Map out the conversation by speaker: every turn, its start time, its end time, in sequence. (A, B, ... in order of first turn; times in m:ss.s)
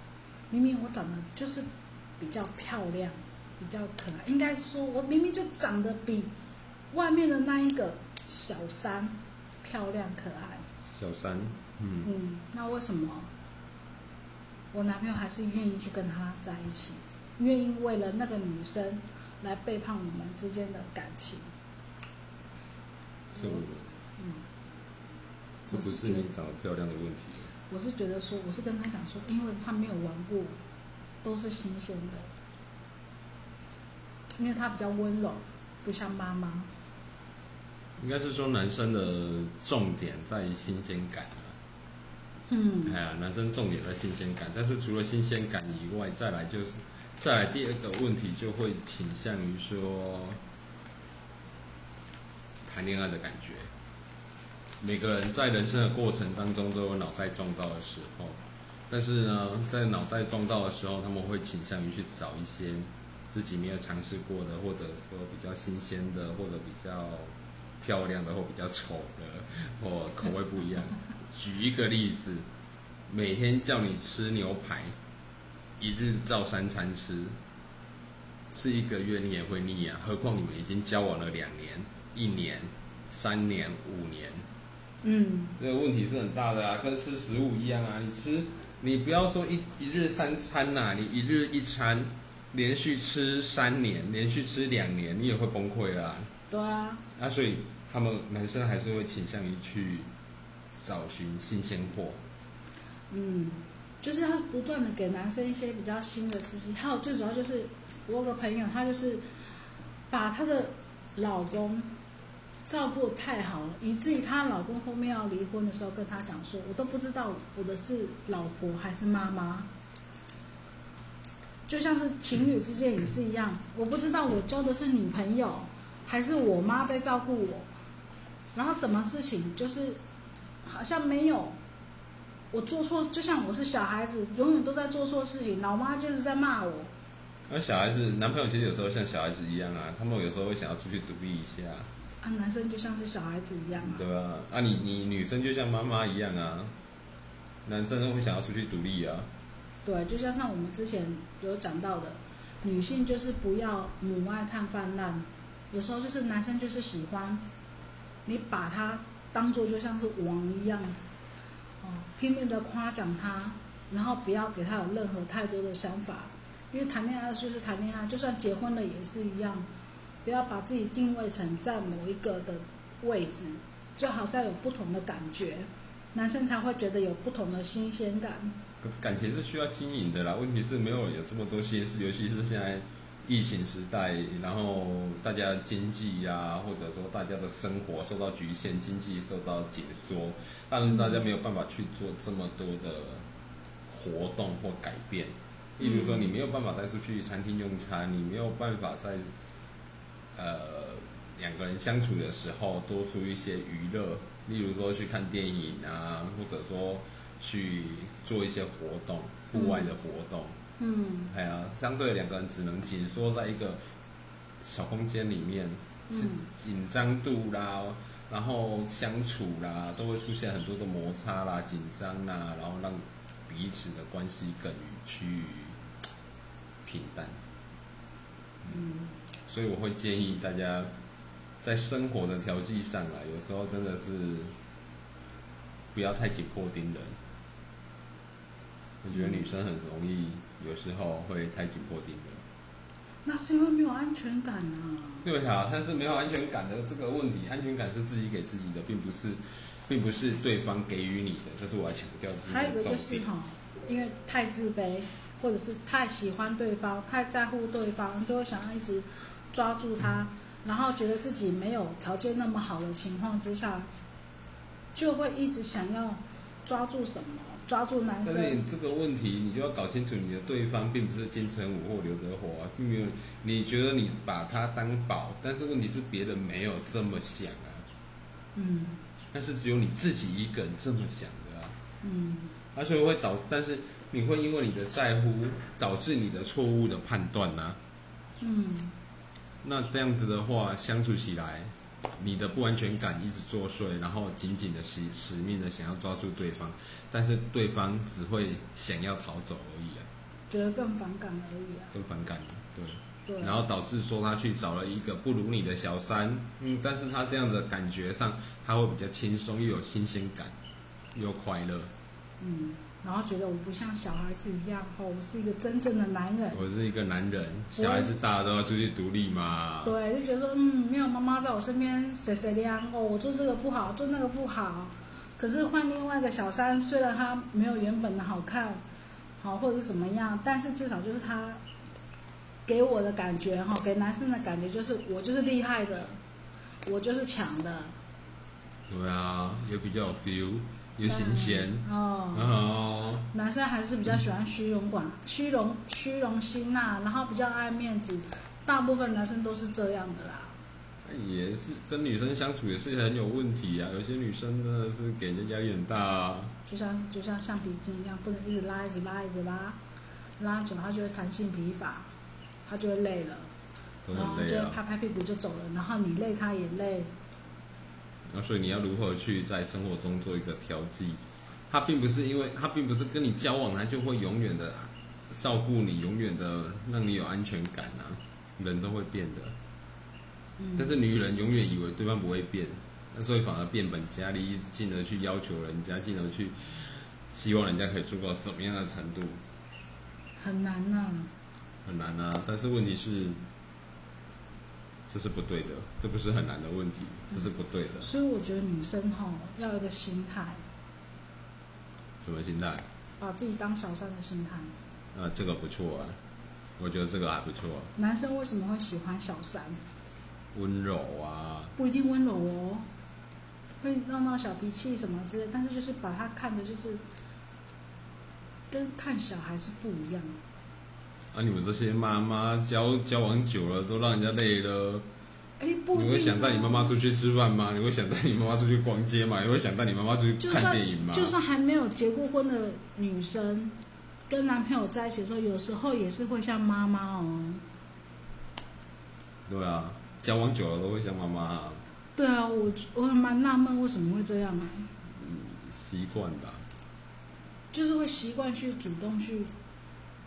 0:00.5-0:01.7 A
0:02.2-0:06.3 A
0:06.9-0:10.6 A
0:10.9-0:12.1 B
0:12.0-0:13.3 A
0:14.7-0:21.4 A
0:23.3-0:23.8 B
0:23.4-0:23.6 A
0:24.2-0:24.4 A
0:25.7-0:27.5 B
0:25.7-0:26.3 A
0:27.7-0:30.5 A
0:31.2-0:32.3 A
0:34.4-0:36.7 A
0:38.0-0:41.5 B
0:42.5-0:43.0 A
0:42.8-0:50.4 B
0:52.6-0:53.7 B
0:54.8-0:58.4 B
0:58.9-1:12.4 B
1:13.1-1:14.9 B
1:15.8-1:17.3 B
1:18.5-1:24.4 B
1:25.0-1:25.6 A
1:25.6-1:36.3 B
1:36.5-1:37.0 A
1:37.2-1:40.1 B
1:40.7-1:42.2 B
1:43.1-1:49.2 A
1:50.1-1:51.9 A
1:52.6-1:59.7 A
2:01.7-2:07.7 A
2:08.5-2:10.0 A
2:10.6-2:11.6 A
2:12.5-2:16.9 A
2:17.5-2:21.9 B
2:22.2-2:24.0 A
2:23.8-2:26.7 B
2:27.6-2:29.3 B
2:29.8-2:37.4 A
2:38.2-2:41.0 A
2:41.8-2:49.7 A
2:50.2-2:58.6 A
2:58.8-3:13.2 B
3:10.8-3:11.2 A
3:13.9-3:19.3 B
3:15.8-3:16.3 A
3:20.3-3:30.5 B
3:29.5-3:29.9 A
3:30.8-3:31.3 A
3:31.3-3:33.8 B
3:34.6-3:45.8 B
3:36.1-3:36.5 A
3:46.8-3:47.3 B
3:48.7-3:49.1 A
3:49.5-3:50.9 B
3:51.6-3:54.5 B
3:55.9-3:57.1 B
3:59.0-4:02.4 B
3:59.1-3:59.4 A
4:03.2-4:05.3 A
4:05.2-4:13.2 B
4:12.5-4:23.9 A
4:24.9-4:28.6 A
4:28.2-4:37.8 B
4:38.5-4:39.0 A
4:39.3-4:41.7 B
4:42.0-4:42.5 A
4:42.7-4:47.8 B
4:48.4-4:48.9 A
4:49.6-5:00.0 B
5:00.5-5:01.9 A
5:01.9-5:10.5 B
5:03.3-5:03.6 A
5:11.1-5:11.9 B
5:12.4-5:16.6 A
5:16.5-5:20.0 B
5:17.8-5:18.1 A
5:19.8-5:28.8 A
5:29.4-5:31.6 A
5:32.6-5:36.2 A
5:36.8-5:37.9 A
5:38.9-5:43.3 B
5:41.0-5:42.6 A
5:43.3-5:50.5 A
5:51.0-5:56.5 B
5:56.6-5:59.8 A
6:00.4-6:02.1 A
6:02.6-6:03.5 A
6:04.0-6:04.8 B
6:04.1-6:07.1 A
6:08.3-6:19.5 B
6:20.6-6:21.0 A
6:20.8-6:29.4 B
6:30.4-6:31.3 A
6:31.8-6:33.4 B
6:35.1-6:38.1 B
6:38.0-6:40.6 A
6:42.2-6:42.8 B
6:43.2-6:44.7 A
6:45.1-6:46.2 B
6:46.8-6:47.9 B
6:48.0-6:49.8 A
6:50.5-6:51.7 B
6:51.8-6:52.8 A
6:53.8-6:57.0 A
6:58.7-7:00.4 A
7:01.3-7:05.0 B
7:05.6-7:07.0 A
7:05.9-7:11.3 B
7:10.4-7:13.8 A
7:14.3-7:17.6 A
7:19.5-7:21.8 B
7:22.2-7:24.9 A
7:25.2-7:26.6 B
7:27.7-7:29.5 A